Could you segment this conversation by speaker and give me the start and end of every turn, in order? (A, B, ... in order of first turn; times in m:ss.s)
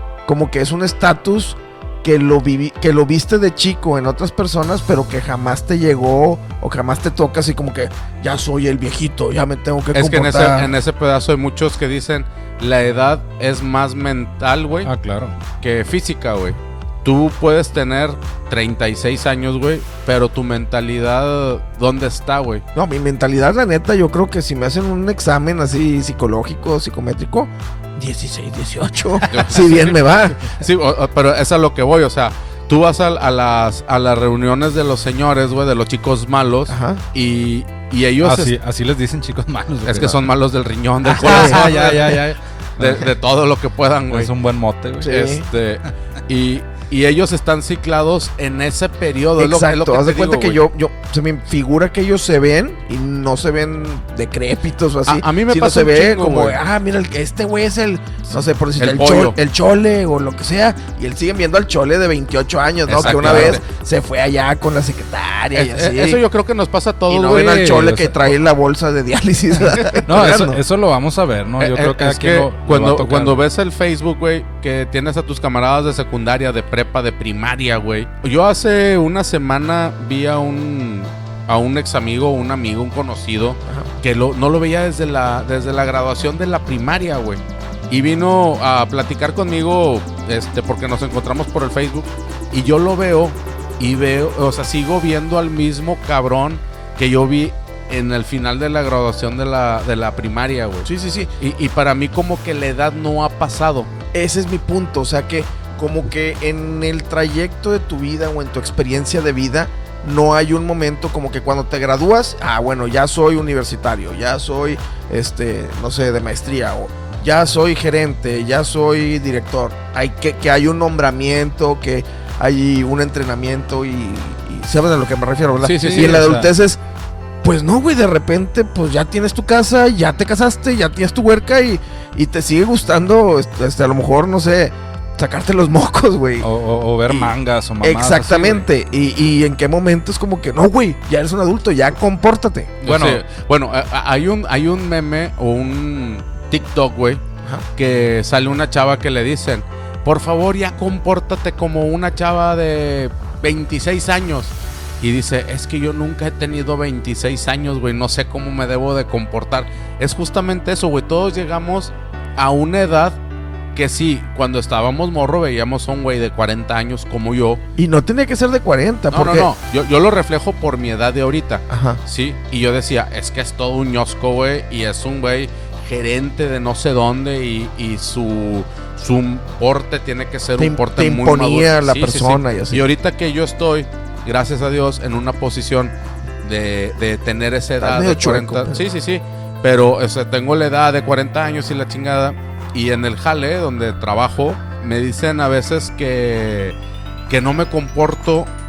0:00.3-0:10.7 A
0:09.9-0:14.9 B
0:14.8-0:15.4 C
0:15.6-0:22.6 B
0:22.8-0:30.4 A
0:29.3-0:38.5 B
0:36.7-0:37.0 A
0:38.2-0:40.2 C
0:39.9-0:42.2 B
0:41.0-0:43.1 C
0:41.2-0:41.7 A
0:42.8-0:44.3 B
0:44.1-0:45.1 C
0:45.0-0:45.4 A
0:45.0-0:50.6 B
0:49.4-1:06.2 A
0:55.1-0:56.6 B
0:58.8-0:59.4 B
1:02.9-1:03.6 B
1:03.0-1:03.6 C
1:05.6-1:07.6 B
1:07.1-1:10.6 A
1:07.3-1:08.3 C
1:09.7-1:10.0 B
1:10.0-1:13.5 C
1:11.6-1:40.9 B
1:40.8-1:41.3 A
1:41.4-1:43.9 B
1:44.1-2:06.8 A
2:05.6-2:06.3 B
2:05.6-2:06.5 C
2:07.4-2:16.5 A
2:16.4-2:18.7 C
2:17.8-2:22.8 A
2:22.8-2:27.2 B
2:22.8-2:23.2 C
2:27.8-2:43.2 B
2:43.8-2:47.6 B
2:47.8-2:49.5 A
2:49.1-3:16.8 B
2:51.7-2:52.0 A
3:00.6-3:02.8 A
3:07.8-3:08.8 A
3:17.3-3:18.5 B